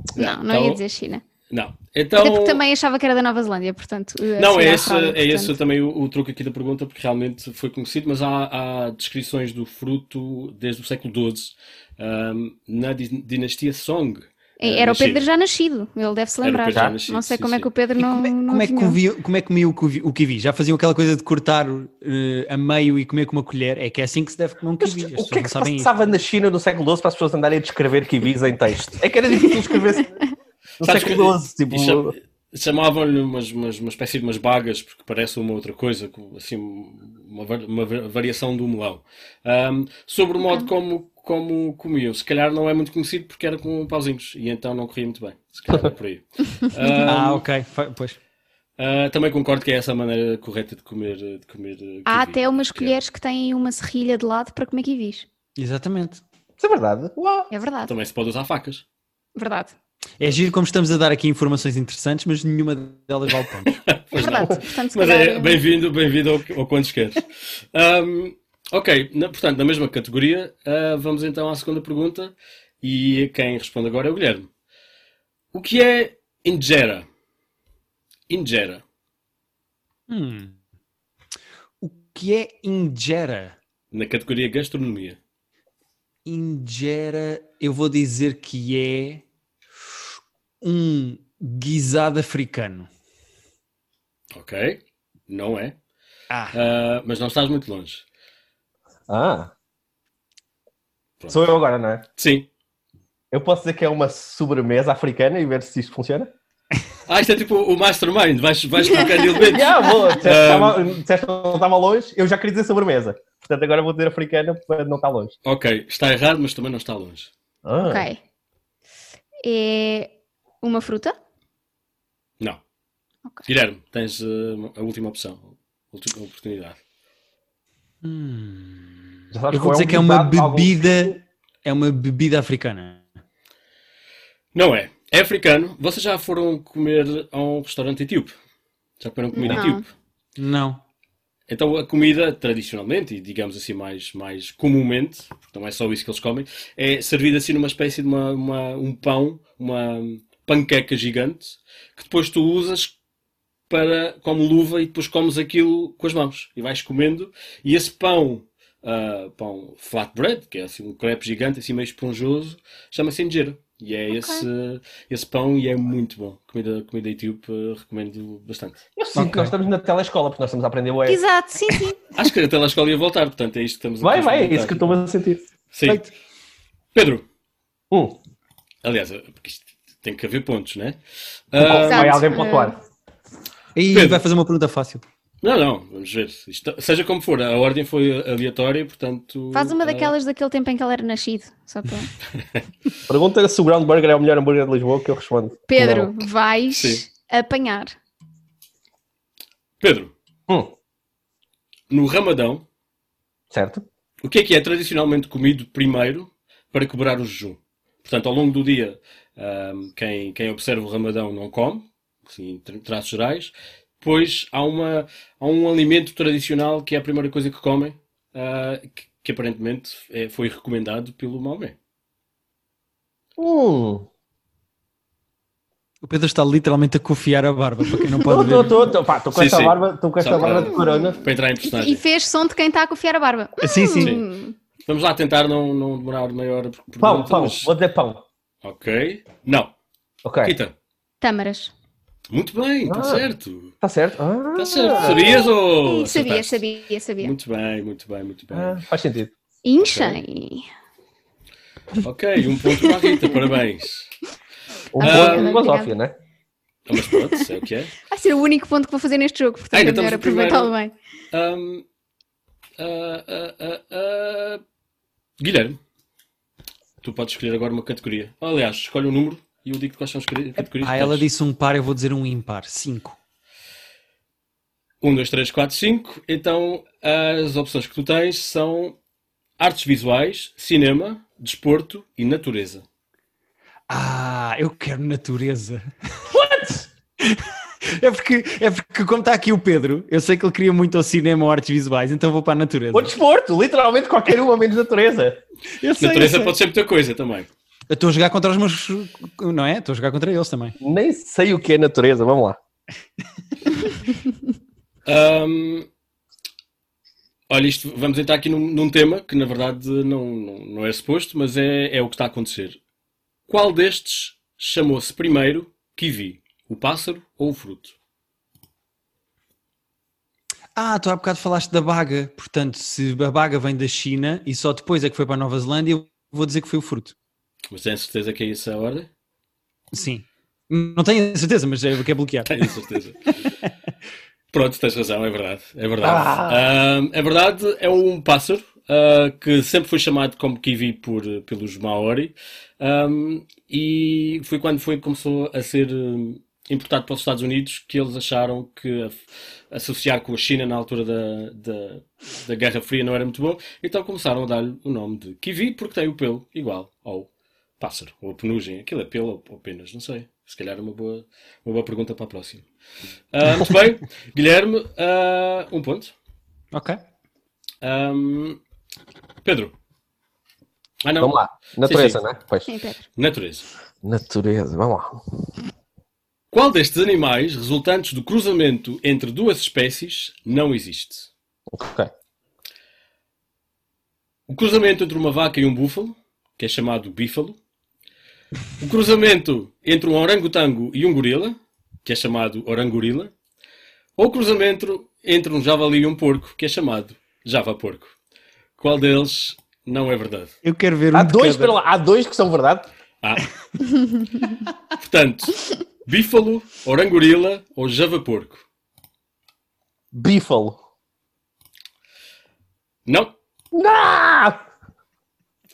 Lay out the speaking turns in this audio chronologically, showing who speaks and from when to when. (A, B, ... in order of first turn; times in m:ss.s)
0:00.1-0:00.8 A
0:00.2-0:01.2 B
0:01.5-0:02.6 A
0:02.2-0:05.5 B
0:04.4-0:15.3 A
0:14.6-0:19.0 B
0:16.4-0:17.7 A
0:18.0-0:25.9 C
0:24.8-0:30.2 D
0:30.8-0:32.1 D
0:30.8-0:47.4 A
0:40.4-0:40.7 B
0:46.8-0:47.1 B
0:47.0-0:48.2 C
0:48.8-0:53.0 A
0:52.1-0:55.2 B
0:55.6-0:56.2 C
0:56.6-0:57.5 D
0:57.5-0:57.9 B
0:57.8-0:58.8 A
0:59.4-0:59.7 B
1:00.2-1:03.8 C
1:03.7-1:14.5 A
1:04.1-1:05.6 B
1:15.5-1:17.0 A
1:18.3-1:18.8 A
1:20.1-1:20.6 C
1:21.8-1:23.6 C
1:23.9-1:25.2 A
1:26.2-1:29.2 C
1:30.6-1:32.9 C
1:34.3-1:35.8 A
1:36.3-1:36.6 C
1:36.5-1:38.0 A
1:39.1-1:39.5 D
1:41.2-1:41.5 A
1:41.3-1:42.0 D
1:42.2-1:42.5 A
1:43.3-1:46.3 D
1:47.1-1:50.8 A
1:48.8-1:50.1 B
1:49.5-1:55.3 D
1:55.4-1:57.3 A
1:57.6-1:58.1 D
1:57.8-1:58.2 B
1:59.4-2:00.1 B
2:00.6-2:01.1 B
2:03.4-2:06.8 A
2:08.0-2:09.0 C
2:09.3-2:11.2 D
2:09.5-2:13.0 C
2:14.5-2:18.3 A
2:19.0-2:19.8 A
2:19.3-2:19.8 B
2:19.4-2:19.6 D
2:20.4-2:20.8 C
2:21.5-2:32.9 A
2:33.7-2:48.8 A
2:44.1-2:44.5 B
2:49.0-2:51.2 D
2:49.1-2:49.5 C
2:51.1-2:52.0 B
2:52.1-2:55.0 A
2:54.0-2:55.4 D
2:55.7-2:56.1 A
2:55.8-2:56.1 C
2:56.9-2:57.2 A
2:57.9-2:58.2 D
2:58.8-3:01.0 A
3:01.5-3:02.3 A
3:01.6-3:02.8 D
3:01.8-3:02.7 B
3:03.8-3:05.0 C
3:03.9-3:04.2 A
3:05.4-3:10.1 A
3:09.5-3:12.1 B
3:13.1-3:16.1 D
3:15.7-3:18.0 B
3:16.8-3:17.0 A
3:19.8-3:20.1 A
3:20.5-3:20.7 D
3:21.9-3:22.6 A
3:23.5-3:23.8 D
3:24.2-3:41.8 A
3:43.4-3:44.1 D
3:46.0-3:48.8 C
3:48.2-3:51.2 D
3:49.3-3:52.0 A
3:50.6-3:54.5 B
3:53.6-3:54.2 C
3:54.0-3:54.2 A
3:54.8-3:57.7 A
3:57.0-3:58.2 D
3:58.6-3:59.7 A
4:00.2-4:00.5 D
4:00.4-4:00.7 A
4:01.2-4:01.7 B
4:02.3-4:03.7 A
4:02.8-4:03.3 D
4:03.8-4:05.4 D
4:04.5-4:06.6 A
4:05.0-4:07.3 B
4:07.2-4:08.8 A
4:08.5-4:09.3 D
4:09.6-4:10.6 B
4:09.8-4:10.2 A
4:12.0-4:14.1 A
4:14.9-4:16.1 D
4:15.0-4:15.9 B
4:15.0-4:15.6 A
4:16.9-4:18.0 A
4:18.1-4:20.9 B
4:19.7-4:20.7 A
4:21.3-4:21.8 A
4:22.8-4:24.6 A
4:25.4-4:25.8 A
4:27.0-4:31.2 A
4:30.6-4:33.2 C
4:35.0-4:39.0 A
4:39.6-4:42.8 A
4:43.9-4:45.8 C
4:46.3-4:46.9 D
4:47.2-4:53.1 C
4:52.9-4:55.4 D
4:55.8-4:56.5 C
4:56.0-4:57.5 A
4:57.9-5:00.8 C
5:00.8-5:02.6 D
5:05.0-5:05.9 A
5:07.5-5:12.8 A
5:13.5-5:17.9 A
5:20.8-5:27.1 C
5:27.7-5:29.1 A
5:29.9-5:32.7 C
5:32.5-5:33.3 A
5:34.5-5:49.2 A
5:36.0-5:36.6 D
5:49.7-6:02.6 A
6:03.3-6:06.1 A
6:06.7-6:07.0 C
6:07.8-6:08.6 A
6:09.4-6:09.7 A
6:11.0-6:12.2 A
6:11.2-6:12.7 D
6:12.7-6:13.1 B
6:13.2-6:13.6 A
6:14.0-6:15.2 D
6:16.5-6:21.3 A
6:21.7-6:22.1 D
6:24.5-6:27.6 A
6:28.8-6:33.3 A
6:34.2-6:38.1 A
6:38.8-6:40.5 A
6:40.6-6:41.8 C
6:41.1-6:42.9 D
6:45.0-6:48.6 A
6:50.1-6:50.8 D
6:53.0-6:53.3 A
6:53.7-6:54.6 D